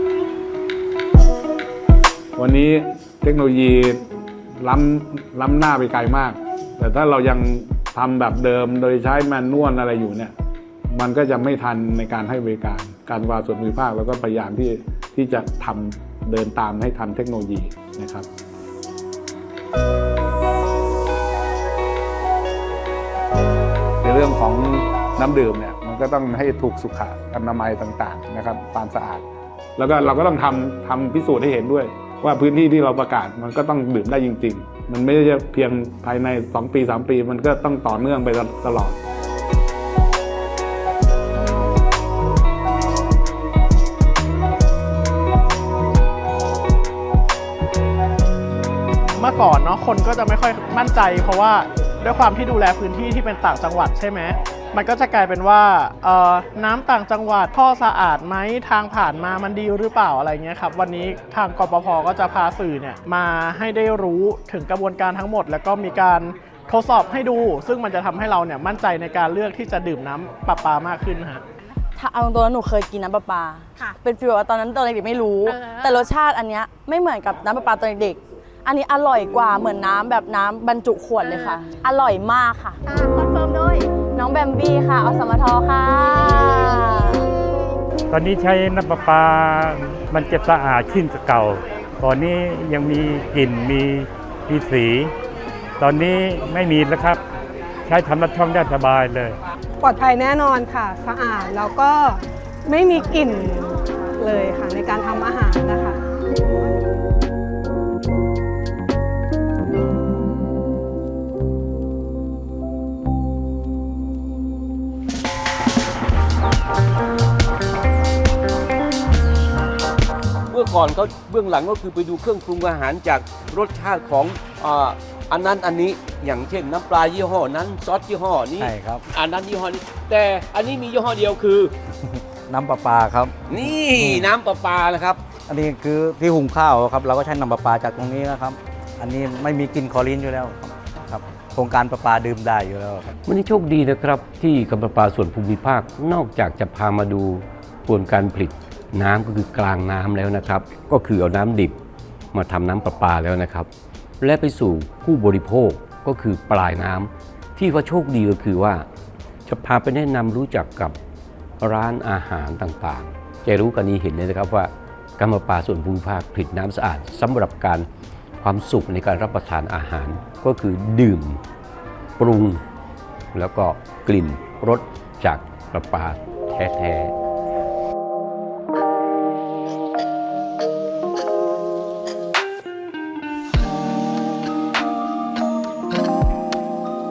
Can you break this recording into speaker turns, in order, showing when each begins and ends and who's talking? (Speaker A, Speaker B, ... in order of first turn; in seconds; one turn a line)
Speaker A: 2.4-4.0
Speaker A: 4.6-10.3
Speaker A: 10.9-18.3
Speaker A: 24.0-29.2
Speaker A: 29.8-39.0
Speaker B: 49.2-71.4
Speaker C: 72.0-82.8
Speaker D: 75.5-76.1
Speaker D: 81.2-81.6
Speaker D: 82.8-83.9
Speaker C: 84.1-87.3
Speaker E: 88.1-95.1
Speaker E: 95.8-97.2
Speaker E: 97.9-99.4
Speaker F: 99.8-106.0
Speaker G: 120.5-131.7
Speaker H: 128.6-129.0
Speaker H: 132.5-133.3
Speaker G: 133.5-135.2
Speaker H: 133.9-134.3
Speaker H: 135.4-143.1
Speaker I: 143.3-151.7
Speaker I: 152.3-153.7
Speaker I: 154.2-158.8
Speaker I: 159.4-160.9
Speaker I: 161.6-167.8
Speaker I: 168.4-171.4
Speaker I: 172.2-172.6
Speaker I: 173.3-177.1